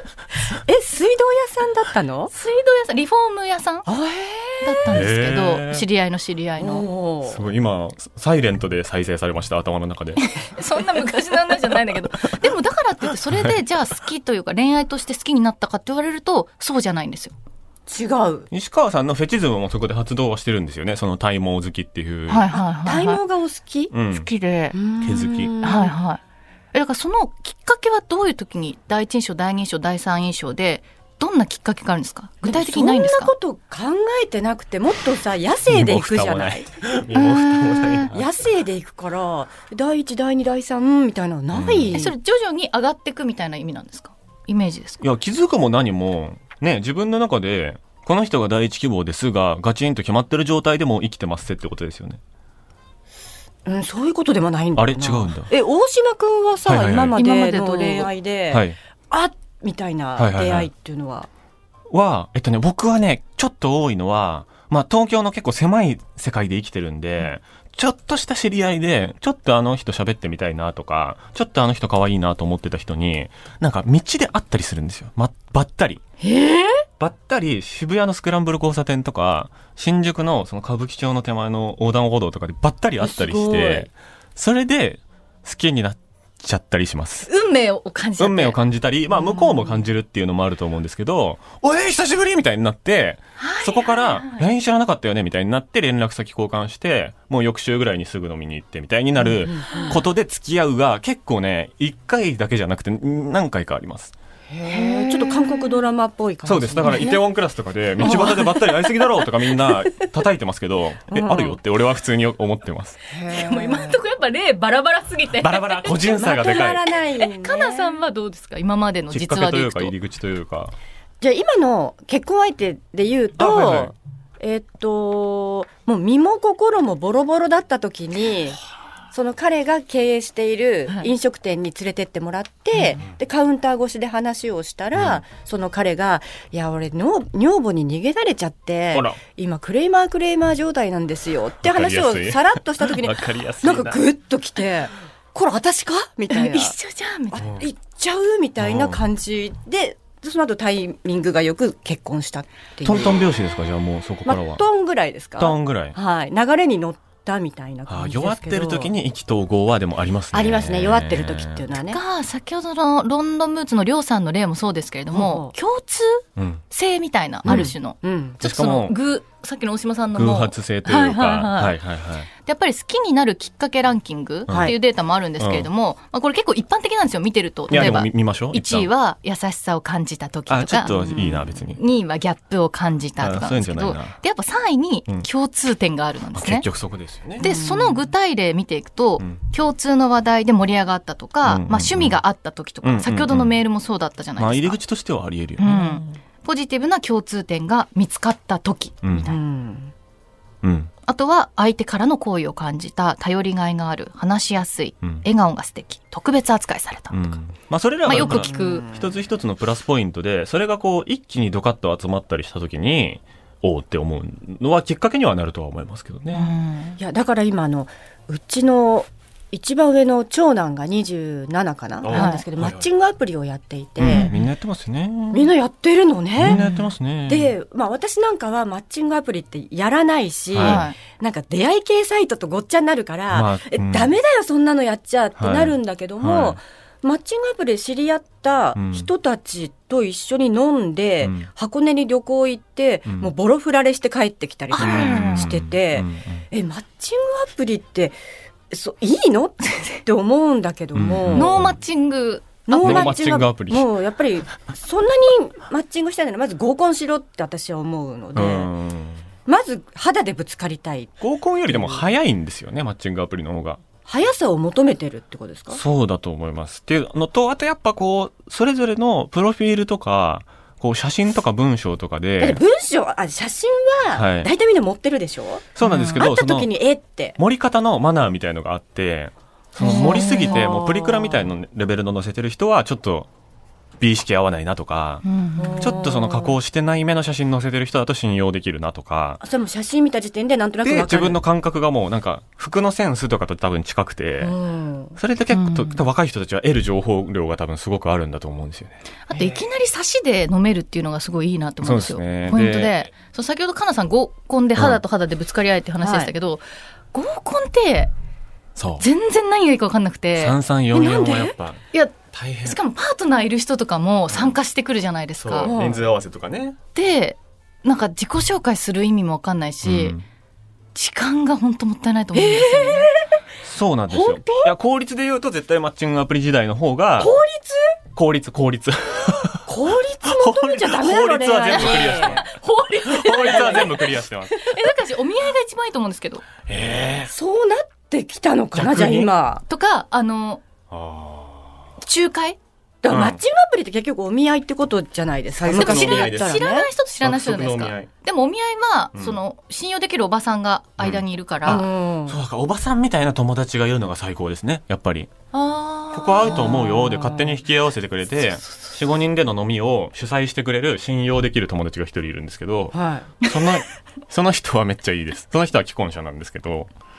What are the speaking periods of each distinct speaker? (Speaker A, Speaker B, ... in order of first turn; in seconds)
Speaker A: 0.7-2.3, 3.9-5.0, 6.6-7.4, 17.9-18.5, 22.5-23.9, 24.7-25.9, 32.4-36.7, 38.1-42.1, 53.7-61.3, 76.2-76.8, 83.0-83.9, 99.4-99.9, 104.5-107.3, 108.0-109.6, 111.1-111.6, 113.1-114.0, 115.9-118.0, 121.2-128.6, 129.1-146.8, 147.3-153.2, 154.2-158.9, 160.3-162.0, 165.1-165.5, 167.4-168.4, 174.5-174.8, 187.4-188.0, 199.2-199.9, 208.1-209.1, 217.0-224.3, 225.3-226.6, 227.3-248.2, 248.7-251.6, 252.7-258.7, 259.5-262.1, 264.1-265.8, 272.4-277.4, 279.8-281.5, 285.6-286.6, 289.4-291.4, 294.4-295.2, 299.3-299.6, 306.0-306.3, 310.9-311.6, 315.6-316.1, 322.3-323.4, 324.1-324.7, 327.2-327.9, 329.7-332.4, 333.4-334.0, 337.3-339.6, 343.0-346.9, 351.6-352.4, 356.5-357.6, 362.9-363.4
Speaker B: 2.3-3.9, 4.6-6.8, 10.2-17.4, 22.3-23.2, 24.2-24.8, 25.6-26.2, 26.7-33.3, 37.1-38.1, 41.9-45.0, 57.1-58.1, 87.3-88.6, 93.4-94.5, 104.7-105.3, 108.0-108.4, 113.3-115.9, 117.2-119.9, 146.3-147.5, 161.9-171.8, 172.4-186.7, 187.4-194.8, 195.6-199.4, 201.1-207.3, 208.1-208.9, 216.3-217.0, 222.1-222.4, 224.0-224.4, 226.5-226.9, 230.6-231.0, 244.7-245.5, 249.7-250.0, 251.3-253.2, 275.8-276.2, 279.8-280.7, 285.2-285.9, 295.5-296.0, 299.3-308.1, 309.0-310.6, 311.9-315.7, 316.9-320.2, 320.9-323.1, 331.8-336.5, 339.7-340.6, 342.0-342.6, 345.7-351.9, 355.5-356.7
Speaker C: 4.9-5.9, 7.2-10.2, 18.5-22.5, 23.9-24.3, 25.0-25.5, 35.7-38.3, 41.5-42.0, 45.0-52.2, 54.8-55.5, 56.7-57.2, 58.5-58.8, 60.2-60.7, 61.9-76.0, 77.0-87.3, 88.2-104.1, 106.5-113.0, 115.4-116.8, 119.1-120.8, 123.4-123.9, 134.9-135.2, 138.9-139.2, 141.6-144.0, 147.4-147.7, 148.6-149.0, 152.8-154.6, 155.4-156.0, 157.9-161.6, 166.4-166.6, 167.5-167.7, 168.4-168.9, 170.2-172.3, 174.5-174.8, 175.4-175.7, 177.7-178.9, 180.5-181.8, 183.2-184.2, 186.3-187.5, 191.4-192.2, 192.8-193.6, 194.4-196.0, 199.0-199.3, 200.6-200.9, 207.1-216.5, 222.0-222.9, 224.0-225.5, 226.4-227.5, 230.5-230.8, 233.3-234.1, 235.4-236.6, 238.8-239.1, 241.2-241.5, 244.8-246.4, 250.9-251.8, 252.8-253.9, 258.4-259.2, 261.2-263.8, 265.7-272.6, 274.1-274.5, 275.8-276.7, 277.4-283.3, 284.0-285.2, 285.8-289.4, 290.8-294.6, 295.2-299.0, 301.8-303.1, 304.8-305.0, 308.8-309.1, 310.4-311.8, 312.3-312.8, 314.3-314.6, 315.4-316.8, 319.8-320.2, 323.6-327.3, 328.1-329.7, 330.3-334.7, 336.7-337.3, 338.8-339.3, 340.9-341.8, 343.1-343.4, 345.6-346.6, 347.2-348.1, 349.1-349.4, 351.0-355.3, 356.1-366.9